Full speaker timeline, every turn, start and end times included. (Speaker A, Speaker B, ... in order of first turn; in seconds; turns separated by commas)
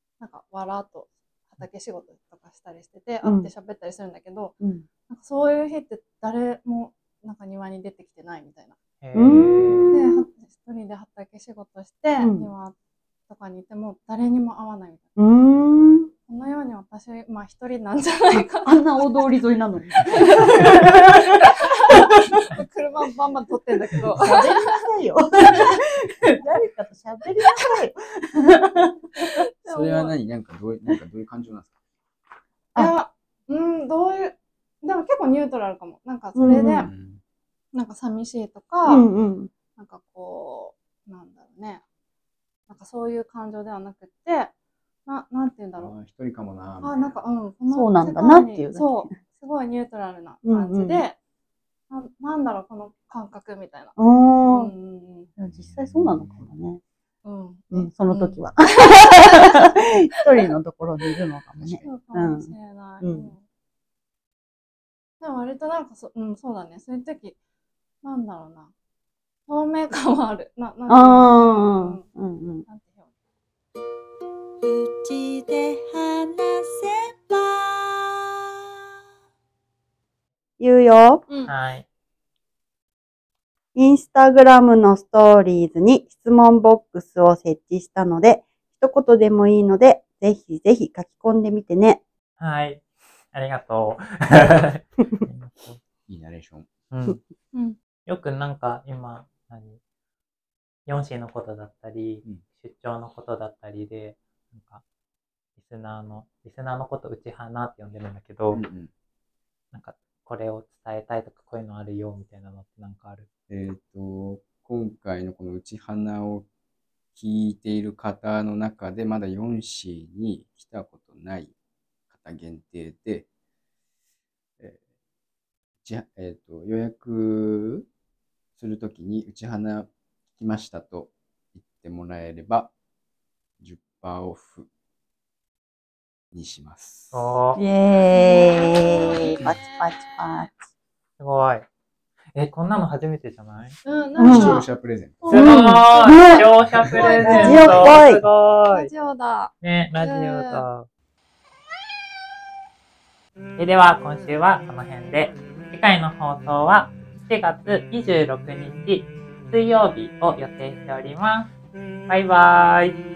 Speaker A: 0.2-4.5, Speaker B: 3.2-3.5, Speaker A: 5.1-8.8, Speaker C: 9.0-9.9, Speaker B: 9.1-10.3, Speaker A: 9.9-12.8, Speaker B: 12.2-12.5, Speaker A: 13.3-15.0, Speaker B: 15.2-16.1, Speaker A: 16.3-19.3, Speaker B: 18.6-22.5, Speaker A: 20.1-24.8, Speaker B: 24.2-29.3, Speaker A: 29.2-30.1, Speaker D: 29.7-31.7, Speaker A: 32.8-36.9, Speaker B: 36.4-36.9, Speaker D: 36.8-37.2, Speaker A: 37.7-39.1, Speaker B: 38.9-39.5, Speaker A: 39.8-41.8, Speaker A: 42.7-44.5, Speaker A: 45.1-45.9, Speaker D: 45.8-47.2, Speaker A: 46.8-51.2, Speaker B: 47.7-49.1, Speaker B: 50.5-51.0, Speaker A: 51.9-54.0, Speaker B: 54.0-54.7, Speaker A: 54.5-55.3, Speaker B: 55.4-56.8, Speaker D: 55.6-56.5, Speaker A: 57.2-59.7, Speaker B: 57.7-63.3, Speaker D: 61.5-61.9, Speaker A: 61.8-63.4, Speaker A: 65.2-67.3, Speaker A: 68.0-68.7, Speaker A: 69.5-72.0, Speaker B: 70.9-72.7, Speaker A: 72.7-73.1, Speaker E: 74.6-78.1, Speaker B: 80.6-81.2, Speaker A: 81.3-81.5, Speaker C: 81.5-81.8, Speaker B: 83.8-92.0, Speaker C: 92.4-95.8, Speaker D: 96.1-96.7, Speaker C: 96.9-97.2, Speaker A: 97.5-97.8, Speaker C: 98.0-99.8, Speaker C: 100.9-104.8, Speaker C: 105.6-108.7, Speaker D: 108.5-108.9, Speaker C: 109.7-113.3, Speaker D: 113.5-116.5, Speaker D: 117.2-121.5, Speaker D: 122.1-123.3, Speaker D: 125.8-127.9, Speaker D: 128.6-132.7, Speaker D: 133.6-134.7, Speaker D: 136.3-137.3, Speaker C: 137.1-137.6, Speaker B: 137.6-140.7, Speaker A: 138.1-139.9, Speaker C: 141.2-141.7, Speaker C: 142.3-143.8, Speaker A: 143.8-144.7, Speaker B: 144.2-144.6, Speaker D: 144.2-145.5, Speaker A: 145.2-146.4, Speaker C: 145.3-148.9, Speaker B: 145.3-146.5, Speaker A: 146.9-148.0, Speaker B: 147.2-148.2, Speaker A: 148.7-150.7, Speaker C: 149.6-150.9, Speaker C: 153.6-161.5, Speaker C: 162.1-163.0